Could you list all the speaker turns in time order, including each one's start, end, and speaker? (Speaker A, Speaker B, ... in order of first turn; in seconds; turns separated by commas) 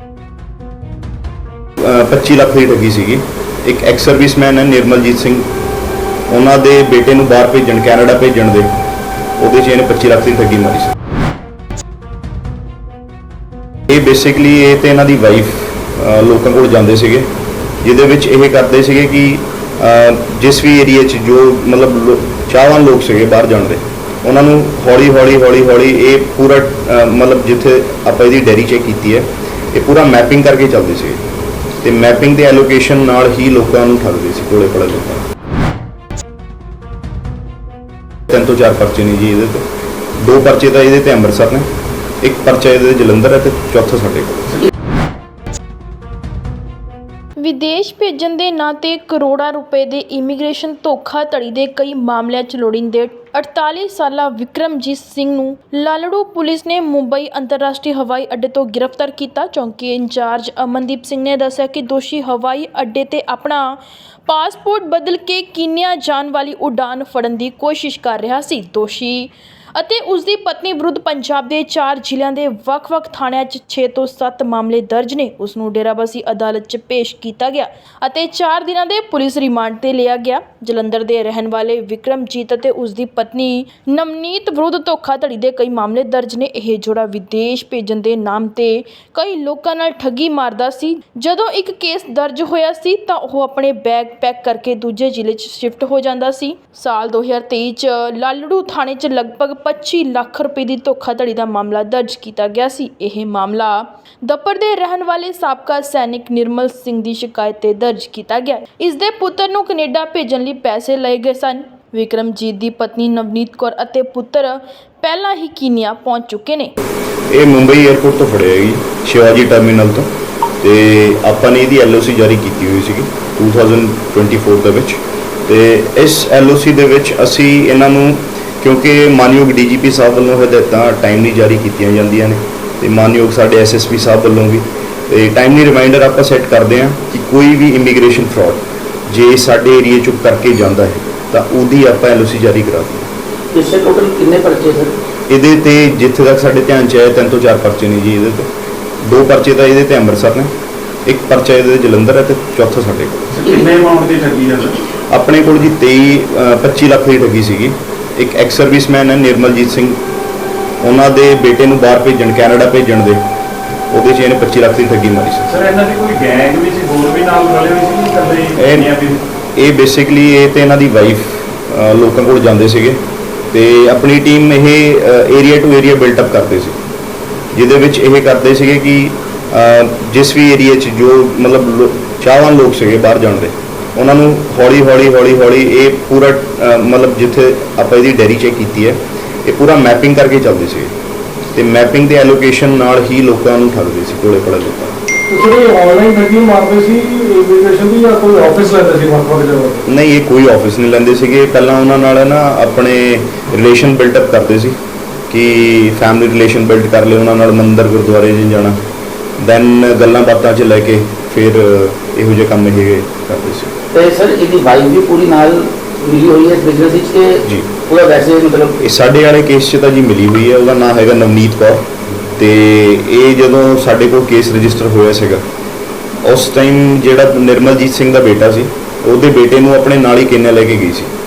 Speaker A: 1.8-5.5, Speaker A: 6.3-8.8, Speaker A: 9.4-10.9, Speaker A: 13.9-17.3, Speaker A: 17.8-31.2, Speaker A: 31.8-35.3, Speaker A: 38.3-39.7, Speaker A: 40.2-41.7, Speaker A: 42.2-44.6, Speaker B: 47.4-116.7, Speaker A: 117.3-120.1, Speaker A: 120.6-143.1, Speaker C: 143.5-144.9, Speaker A: 145.3-148.5, Speaker A: 149.0-150.5, Speaker A: 151.1-153.4, Speaker D: 153.3-154.8, Speaker A: 155.1-160.0, Speaker A: 160.8-163.2, Speaker A: 163.9-165.5, Speaker D: 165.5-169.2, Speaker A: 168.6-168.9, Speaker A: 169.6-173.0, Speaker A: 173.5-176.8, Speaker A: 177.5-190.9, Speaker A: 191.5-195.0, Speaker E: 195.3-199.8, Speaker A: 199.9-204.8, Speaker A: 205.3-208.8, Speaker A: 209.4-213.8, Speaker C: 213.9-218.8, Speaker A: 217.4-217.7, Speaker A: 218.8-221.9, Speaker A: 222.4-225.4, Speaker A: 226.2-231.1